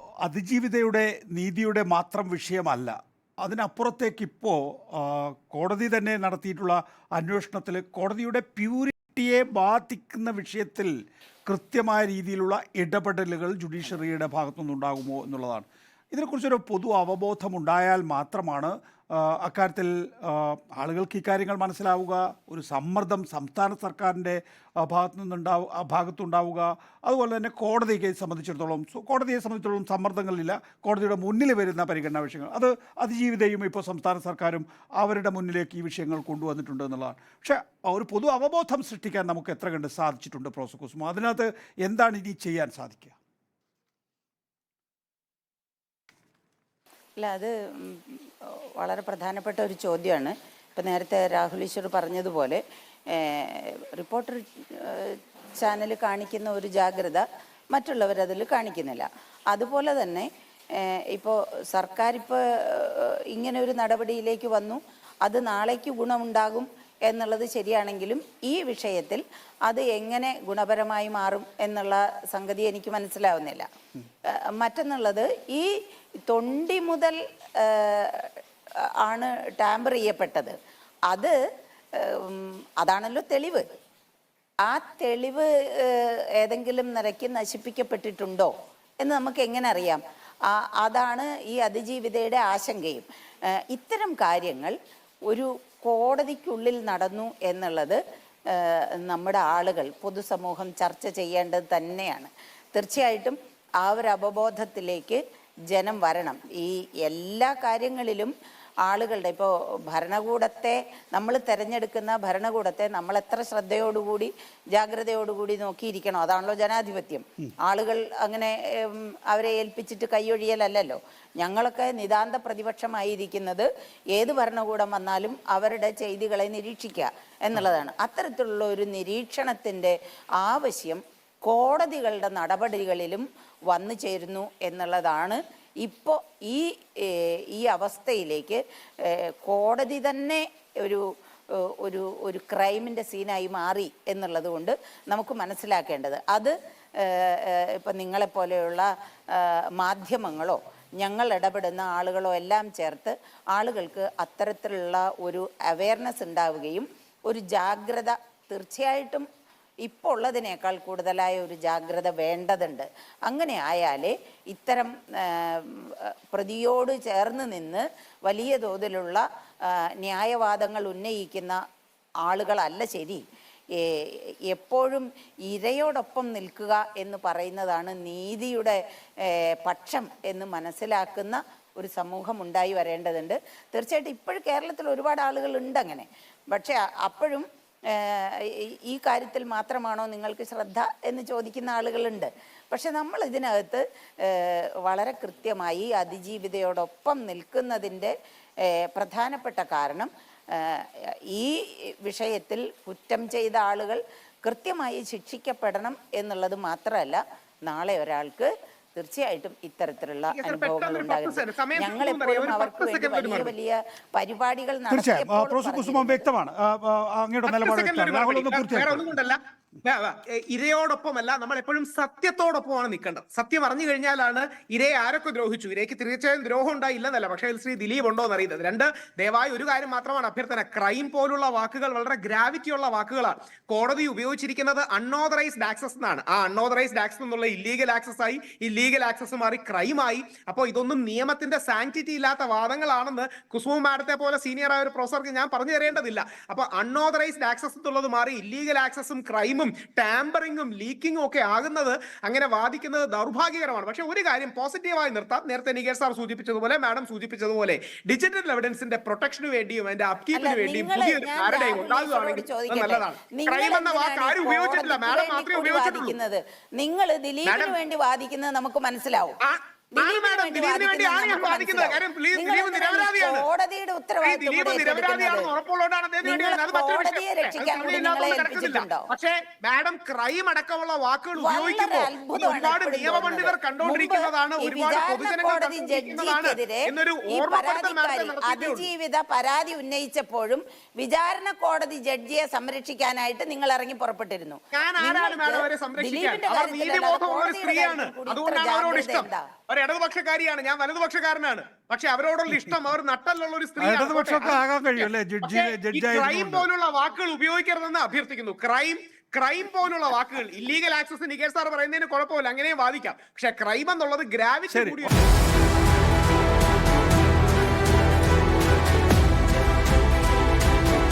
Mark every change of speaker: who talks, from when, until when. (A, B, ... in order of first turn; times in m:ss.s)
0:00.2-0:11.0 A
0:11.5-0:43.2 A
0:47.2-1:13.7 B
1:14.3-1:15.7 B
1:16.2-1:20.5 B
1:21.9-1:23.6 B
1:24.6-1:28.5 B
1:29.0-1:34.7 B
1:35.3-1:45.2 B
1:45.7-1:48.3 B
1:48.8-2:39.3 B
2:39.8-2:51.6 B
2:52.2-2:53.2 B
2:53.8-3:36.3 B
3:30.3-3:33.5 C
3:34.9-3:39.1 A
3:37.5-4:26.1 C
4:20.3-4:29.4 B
4:27.4-4:27.8 C
4:29.4-4:33.5 C
4:30.0-4:35.5 B
4:34.2-4:48.9 C
4:36.2-4:39.1 B
4:41.4-4:59.5 B
4:54.7-5:15.1 C
5:03.8-5:06.6 A
5:14.7-5:15.0 A